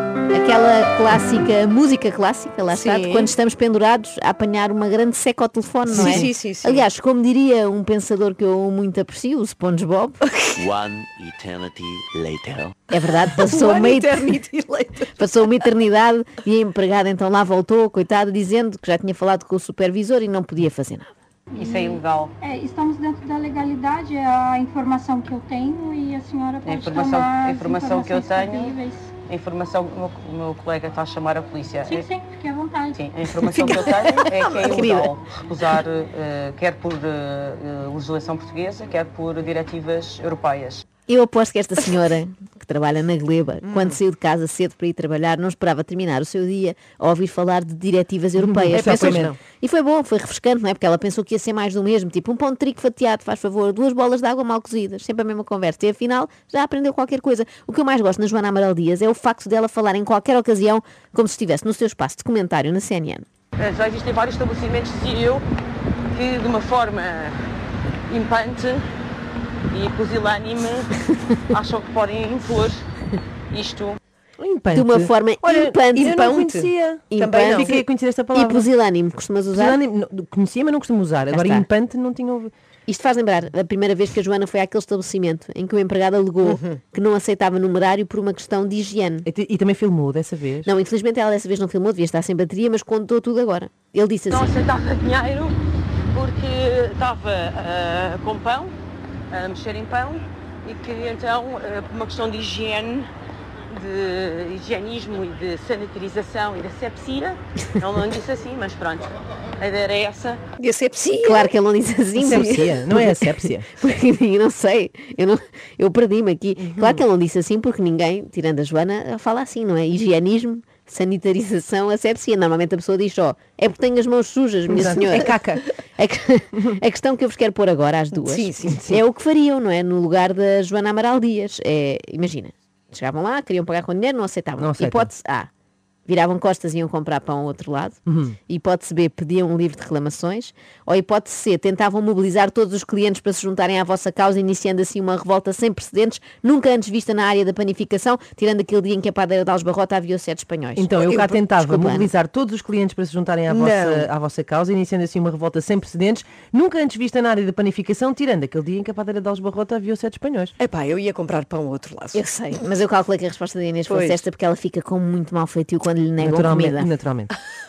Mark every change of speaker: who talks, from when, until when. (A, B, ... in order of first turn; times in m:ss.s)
0:00.3-0:10.2 A
0:02.7-0:03.3 B
0:05.9-0:06.9 B
0:05.9-0:06.2 C
0:10.4-0:10.7 B
0:10.6-0:12.7 D
0:12.9-0:14.2 A
0:13.2-0:15.5 B
0:15.2-0:21.1 A
0:21.5-0:22.3 E
0:21.5-0:29.1 F
0:26.6-0:32.1 E
0:31.8-0:33.0 F
0:32.9-0:40.8 E
0:34.0-0:34.6 B
0:34.6-0:35.1 A
0:41.1-1:03.2 A
0:43.6-0:44.0 B
0:48.4-0:49.3 C
0:48.7-0:49.4 B
1:03.6-1:05.4 E
1:06.1-1:07.4 E
1:08.1-1:08.8 E
1:09.7-1:10.9 E
1:11.5-1:12.8 E
1:13.5-1:14.0 E
1:14.4-1:18.7 C
1:14.7-1:16.1 A
1:15.9-1:17.8 B
1:17.1-1:19.8 A
1:19.5-1:22.5 C
1:21.3-1:21.7 A
1:22.9-1:29.3 A
1:26.4-1:26.8 B
1:29.2-1:30.7 C
1:30.6-1:34.6 A
1:34.3-1:35.6 E
1:36.1-1:38.7 E
1:39.3-1:43.1 E
1:43.7-1:50.4 E
1:50.6-1:51.5 B
1:51.2-2:05.3 A
1:52.1-1:53.7 C
2:04.7-2:05.0 C
2:04.7-2:05.7 B
2:06.0-2:15.5 A
2:08.1-2:08.9 B
2:08.6-2:09.0 C
2:14.6-2:15.1 C
2:16.1-2:32.1 A
2:18.1-2:18.4 C
2:30.8-2:40.5 C
2:30.9-2:31.4 B
2:33.5-2:34.1 B
2:40.6-2:42.2 B
2:42.1-2:46.9 A
2:43.9-2:44.2 B
2:46.2-2:47.3 C